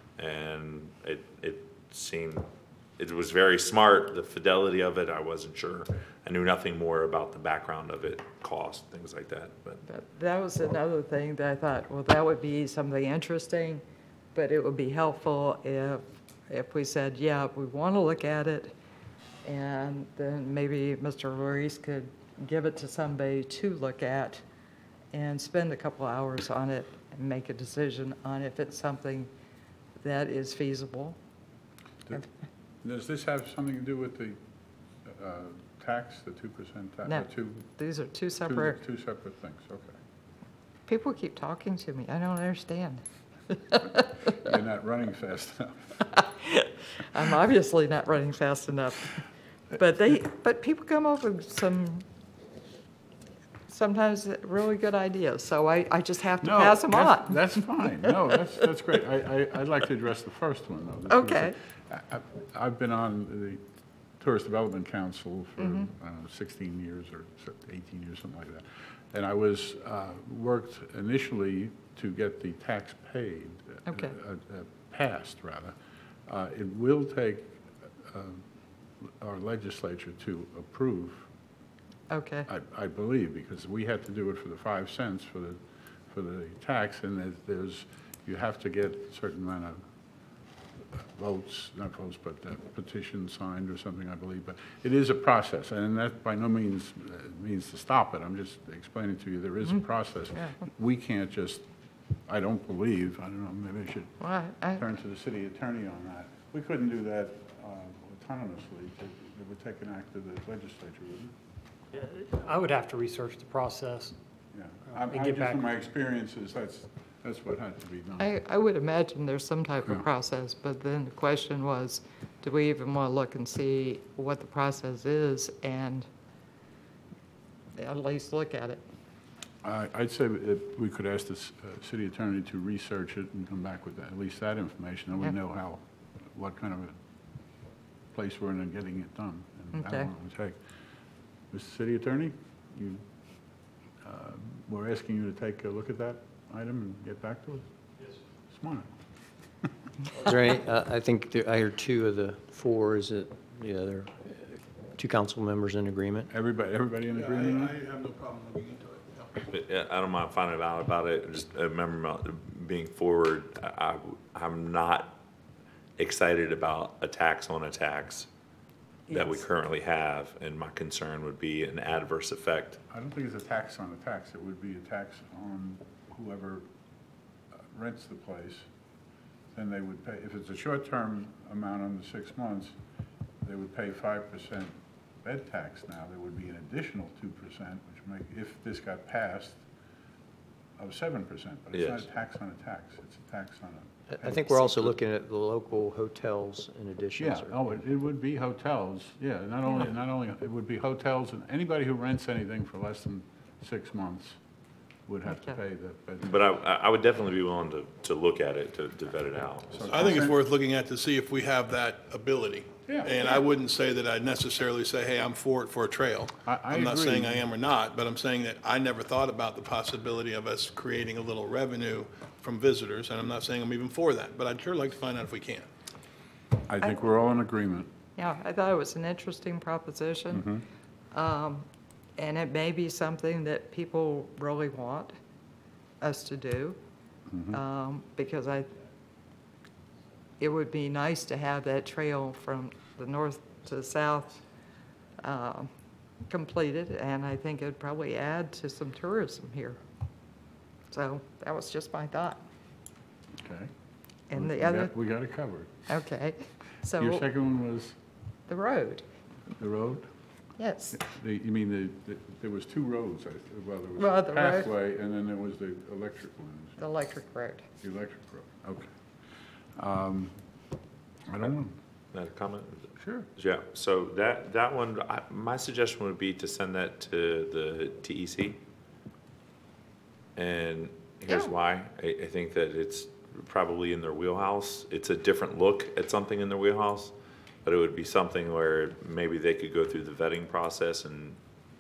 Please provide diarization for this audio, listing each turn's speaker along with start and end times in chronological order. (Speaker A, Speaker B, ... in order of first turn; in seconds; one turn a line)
Speaker A: 0.2-2.5
Speaker A: 3.0-9.8
Speaker B: 9.8-13.8
Speaker B: 14.3-18.7
Speaker B: 19.4-24.4
Speaker B: 25.1-29.3
Speaker B: 30.0-31.2
Speaker C: 32.8-34.4
Speaker C: 35.0-37.7
Speaker B: 37.1-38.8
Speaker C: 38.5-40.0
Speaker B: 40.9-44.1
Speaker C: 44.3-46.0
Speaker B: 46.2-49.2
Speaker B: 49.7-52.0
Speaker B: 53.7-58.4
Speaker C: 56.4-63.6
Speaker B: 61.1-61.5
Speaker C: 64.2-75.8
Speaker B: 65.6-65.9
Speaker B: 73.9-74.2
Speaker C: 76.3-78.4
Speaker C: 79.0-81.3
Speaker B: 82.1-82.5
Speaker C: 82.5-85.6
Speaker C: 86.1-89.8
Speaker C: 90.9-101.7
Speaker C: 102.3-104.2
Speaker B: 104.2-104.8
Speaker C: 104.7-111.3
Speaker D: 112.0-114.2
Speaker C: 114.5-118.3
Speaker D: 114.9-115.6
Speaker B: 118.2-126.1
Speaker B: 127.8-128.8
Speaker C: 129.6-137.0
Speaker C: 138.1-140.6
Speaker B: 139.7-140.1
Speaker C: 141.5-143.0
Speaker C: 144.0-147.7
Speaker C: 148.5-148.9
Speaker E: 150.2-156.3
Speaker C: 156.3-157.8
Speaker F: 157.1-159.4
Speaker A: 159.5-165.2
Speaker A: 166.0-168.3
Speaker A: 169.1-172.8
Speaker B: 169.1-169.4
Speaker C: 172.9-176.6
Speaker C: 177.7-178.7
Speaker C: 179.5-182.7
Speaker C: 183.4-189.6
Speaker C: 190.8-194.9
Speaker A: 191.7-192.1
Speaker E: 194.1-197.8
Speaker C: 197.2-204.4
Speaker C: 205.1-206.4
Speaker A: 206.2-210.0
Speaker C: 209.7-210.4
Speaker F: 209.9-225.7
Speaker C: 212.9-213.2
Speaker C: 216.4-217.4
Speaker C: 226.7-227.9
Speaker B: 228.2-230.5
Speaker C: 230.3-230.6
Speaker B: 231.1-231.7
Speaker B: 232.2-235.1
Speaker B: 236.0-236.8
Speaker C: 237.3-237.6
Speaker B: 237.5-238.7
Speaker B: 240.4-244.4
Speaker B: 245.2-245.7
Speaker B: 246.3-249.8
Speaker B: 250.9-252.4
Speaker C: 253.4-253.7
Speaker B: 254.3-254.9
Speaker C: 254.3-255.7
Speaker B: 255.9-257.2
Speaker C: 257.0-258.0
Speaker B: 258.5-259.0
Speaker C: 259.6-260.1
Speaker B: 260.6-261.0
Speaker C: 260.9-266.8
Speaker B: 264.0-264.7
Speaker B: 266.8-267.6
Speaker C: 267.8-268.9
Speaker C: 269.8-270.4
Speaker C: 271.3-271.7
Speaker A: 272.1-278.6
Speaker C: 273.0-273.3
Speaker A: 280.4-287.1
Speaker B: 281.3-281.5
Speaker A: 287.6-291.4